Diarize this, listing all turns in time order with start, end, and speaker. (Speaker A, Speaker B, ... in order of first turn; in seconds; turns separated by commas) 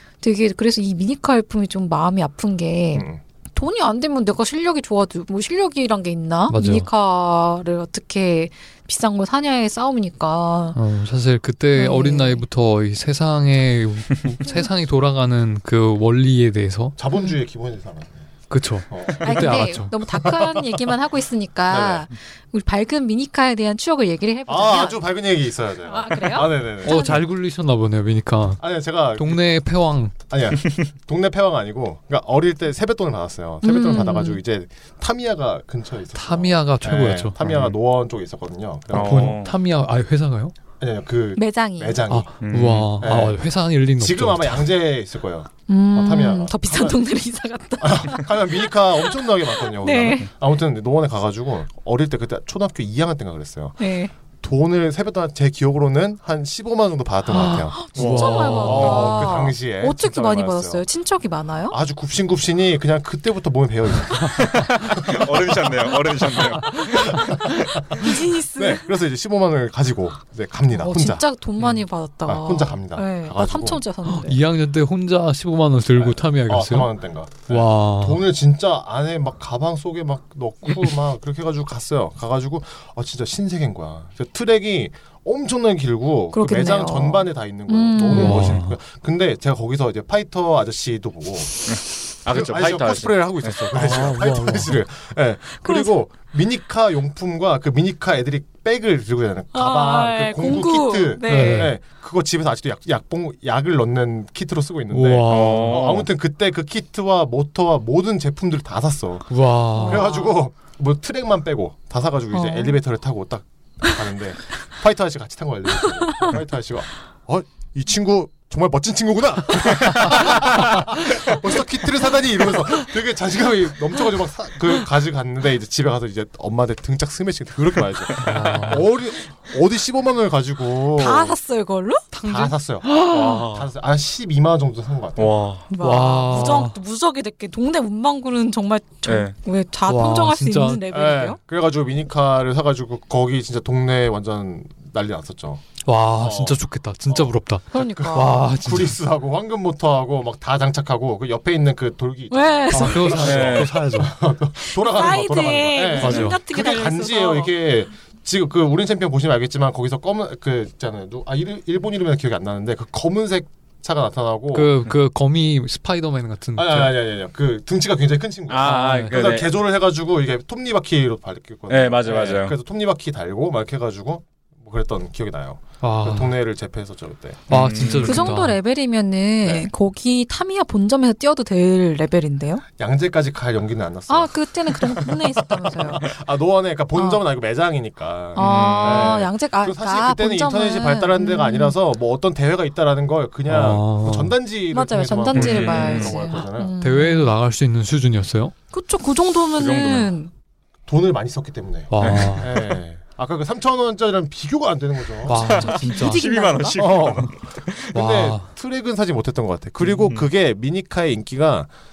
Speaker A: 0.2-10.8, Speaker B: 2.9-3.2, Speaker C: 6.5-6.9, Speaker C: 10.8-17.0, Speaker A: 11.8-12.4, Speaker B: 17.0-18.3, Speaker C: 18.5-20.0, Speaker B: 18.9-20.7, Speaker A: 19.2-25.1, Speaker B: 21.7-22.1, Speaker B: 24.5-27.0, Speaker A: 25.9-27.2, Speaker C: 26.8-28.6, Speaker B: 28.6-29.5, Speaker C: 29.2-30.1, Speaker B: 30.3-39.4, Speaker A: 33.6-34.4, Speaker C: 36.2-37.4, Speaker D: 37.4-37.7, Speaker D: 38.9-39.5, Speaker C: 39.0-40.5, Speaker B: 40.8-42.3, Speaker A: 41.4-42.1, Speaker C: 42.1-44.7, Speaker D: 42.4-42.9, Speaker B: 43.0-43.4, Speaker B: 44.0-47.0, Speaker A: 45.7-50.3, Speaker B: 47.8-53.9, Speaker A: 53.8-54.1, Speaker B: 54.4-60.9, Speaker C: 57.3-59.4, Speaker A: 57.6-61.8, Speaker B: 61.7-65.8, Speaker D: 64.3-67.7, Speaker B: 66.4-71.2, Speaker A: 67.9-68.9, Speaker A: 70.7-74.4, Speaker B: 72.3-73.8, Speaker C: 74.1-76.9, Speaker B: 76.0-91.7, Speaker C: 77.5-78.2, Speaker A: 86.3-88.6, Speaker C: 88.1-88.8, Speaker D: 91.7-93.7, Speaker B: 92.3-131.4, Speaker C: 93.7-94.8, Speaker A: 95.6-95.9, Speaker A: 99.5-101.8, Speaker C: 101.3-101.8, Speaker C: 104.9-105.9, Speaker D: 105.3-106.1, Speaker C: 109.3-110.1, Speaker A: 109.8-110.3, Speaker A: 112.3-112.8, Speaker D: 128.2-128.6, Speaker C: 128.2-128.9, Speaker A: 130.9-132.1, Speaker C: 132.1-133.7, Speaker B: 132.2-135.4, Speaker D: 135.2-135.7, Speaker A: 135.7-141.4, Speaker C: 135.8-136.8, Speaker D: 139.1-139.3, Speaker C: 139.9-140.8, Speaker B: 140.9-145.6, Speaker C: 145.9-149.0, Speaker B: 146.2-164.8, Speaker A: 147.7-148.4, Speaker A: 152.3-153.3, Speaker C: 152.7-154.2, Speaker D: 153.2-153.8, Speaker A: 154.6-157.5, Speaker D: 156.0-156.3, Speaker C: 164.5-167.0, Speaker B: 166.6-177.9, Speaker D: 168.5-169.5, Speaker C: 168.7-169.2, Speaker D: 171.7-172.6, Speaker C: 175.8-176.3, Speaker D: 177.5-178.2, Speaker C: 177.5-178.6, Speaker A: 178.1-182.6, Speaker B: 182.8-196.7, Speaker A: 184.1-186.0, Speaker A: 186.9-187.2, Speaker D: 188.4-189.2, Speaker A: 188.4-191.8, Speaker C: 193.5-194.4, Speaker A: 194.7-197.3, Speaker D: 195.3-196.1, Speaker C: 196.8-198.5, Speaker A: 198.7-200.3, Speaker D: 199.6-200.1, Speaker B: 200.9-205.4, Speaker C: 201.9-202.7, Speaker D: 202.0-202.4, Speaker C: 205.3-206.3, Speaker A: 205.3-207.0, Speaker D: 205.3-207.9, Speaker B: 206.8-207.3, Speaker B: 207.9-211.7, Speaker C: 207.9-208.5, Speaker D: 209.8-210.3